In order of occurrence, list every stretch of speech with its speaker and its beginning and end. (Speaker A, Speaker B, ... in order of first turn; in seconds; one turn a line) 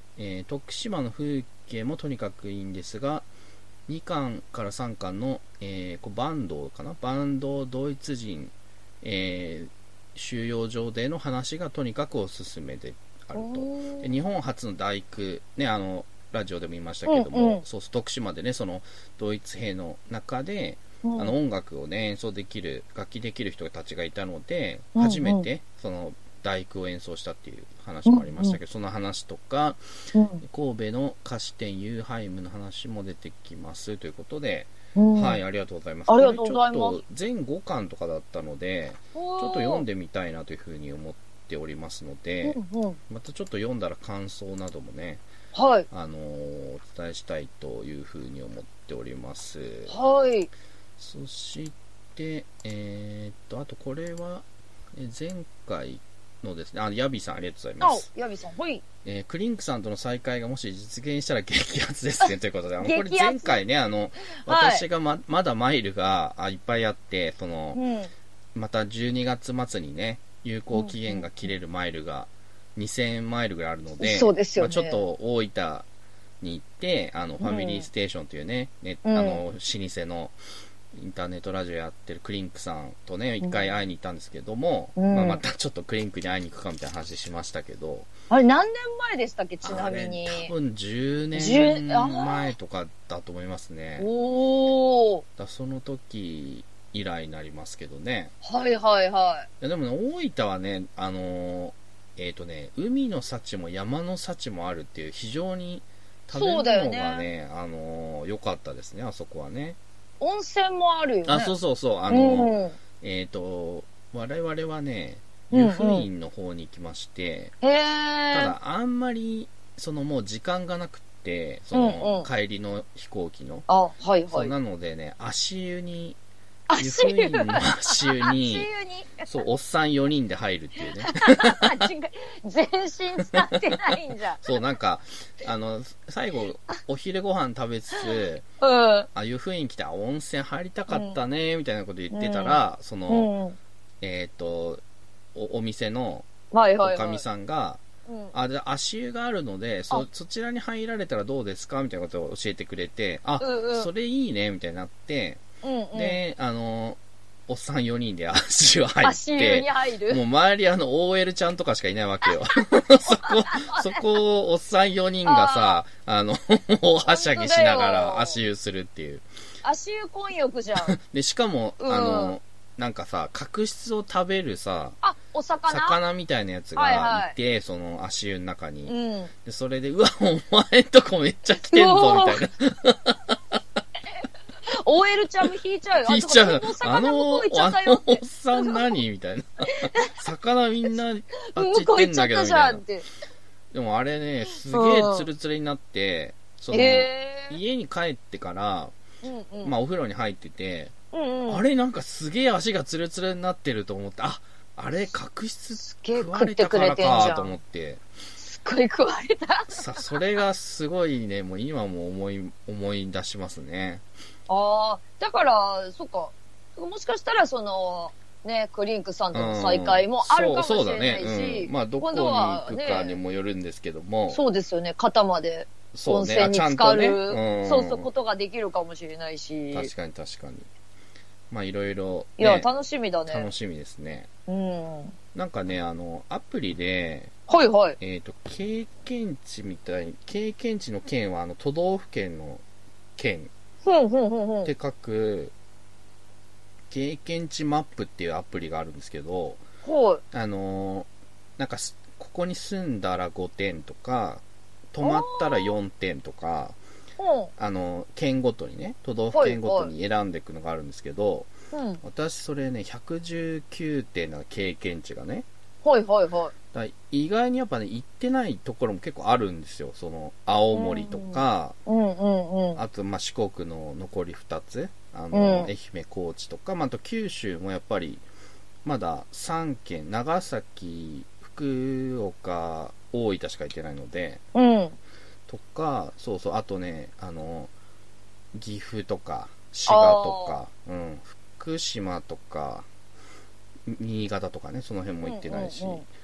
Speaker A: 0.1-3.2
Speaker A: 3.9-29.8
Speaker B: 13.3-14.2
Speaker B: 17.1-17.6
Speaker B: 21.0-21.3
Speaker B: 24.9-25.5
Speaker B: 28.1-28.6
Speaker B: 30.1-30.4
Speaker A: 30.4-45.2
Speaker B: 35.0-35.4
Speaker B: 36.1-37.0
Speaker B: 39.1-39.9
Speaker B: 42.4-43.0
Speaker B: 45.5-45.9
Speaker A: 45.9-49.9
Speaker B: 49.9-50.5
Speaker A: 51.0-58.0
Speaker B: 57.8-58.8
Speaker A: 59.0-67.8
Speaker B: 62.2-63.6
Speaker B: 64.4-64.8
Speaker B: 67.7-68.1
Speaker A: 68.5-75.9
Speaker B: 70.7-71.3
Speaker B: 74.0-75.0
Speaker A: 76.4-80.3
Speaker B: 77.4-77.9
Speaker B: 79.0-79.4
Speaker A: 80.9-88.1
Speaker B: 83.4-83.7
Speaker B: 85.0-85.4
Speaker B: 88.3-90.5
Speaker A: 89.6-94.1
Speaker B: 91.3-92.5
Speaker B: 94.0-95.2
Speaker A: 95.4-98.3
Speaker B: 98.4-99.5
Speaker A: 99.6-109.8
Speaker B: 106.3-107.3
Speaker B: 110.2-111.5
Speaker A: 111.3-117.5
Speaker B: 112.1-112.8
Speaker B: 115.5-116.1
Speaker B: 117.6-118.5
Speaker A: 118.3-123.7
Speaker B: 121.7-122.3
Speaker B: 123.7-124.5
Speaker A: 124.3-126.2
Speaker B: 126.7-129.3
Speaker A: 126.8-128.7
Speaker A: 129.2-131.9
Speaker B: 130.8-134.4
Speaker A: 133.3-138.4
Speaker B: 137.9-139.1
Speaker A: 139.1-143.3
Speaker B: 140.9-141.2
Speaker B: 142.1-143.6
Speaker A: 144.0-144.8
Speaker A: 145.3-146.3
Speaker B: 146.5-147.2
Speaker A: 146.8-147.8
Speaker B: 148.1-148.3
Speaker A: 148.3-155.4
Speaker B: 153.4-153.9
Speaker B: 155.6-156.2
Speaker A: 155.9-169.2
Speaker B: 159.0-160.2
Speaker B: 162.7-164.0
Speaker B: 165.2-165.8
Speaker B: 167.0-168.4
Speaker B: 169.6-170.9
Speaker A: 170.8-175.0
Speaker B: 171.8-172.3
Speaker B: 175.0-176.0
Speaker A: 175.7-178.9
Speaker B: 176.8-177.3
Speaker B: 178.8-179.3
Speaker A: 179.4-183.6
Speaker B: 181.7-182.4
Speaker B: 184.7-188.8
Speaker A: 186.0-192.8
Speaker B: 189.8-190.1
Speaker B: 191.4-193.1
Speaker A: 193.7-198.9
Speaker B: 194.7-195.3
Speaker B: 196.7-197.6
Speaker B: 199.2-199.7
Speaker A: 199.6-200.9
Speaker B: 201.1-201.6
Speaker A: 201.5-208.0
Speaker B: 205.8-207.6
Speaker B: 208.4-210.0
Speaker A: 209.7-214.0
Speaker B: 214.5-223.2
Speaker A: 219.3-224.4
Speaker B: 224.3-229.9
Speaker A: 225.9-228.1
Speaker A: 229.7-230.7
Speaker A: 231.5-232.7
Speaker B: 232.4-233.5
Speaker A: 233.3-234.3
Speaker B: 234.5-235.1
Speaker A: 235.3-237.3
Speaker B: 237.5-238.0
Speaker A: 238.0-242.6
Speaker A: 243.2-243.5
Speaker B: 243.8-244.7
Speaker A: 244.6-245.5
Speaker A: 246.9-249.6
Speaker B: 249.8-250.2
Speaker A: 250.3-256.8
Speaker B: 255.0-255.7
Speaker B: 257.2-257.5
Speaker A: 257.6-261.5
Speaker B: 259.3-259.9
Speaker B: 261.7-262.0
Speaker A: 262.0-265.4
Speaker B: 265.8-266.5
Speaker A: 266.7-271.8
Speaker B: 270.7-272.8
Speaker A: 272.7-278.2
Speaker B: 275.3-275.7
Speaker A: 278.8-284.4
Speaker B: 284.5-285.0
Speaker A: 285.5-287.7
Speaker A: 288.5-292.9
Speaker B: 289.9-290.6
Speaker A: 293.8-296.1
Speaker B: 295.2-296.0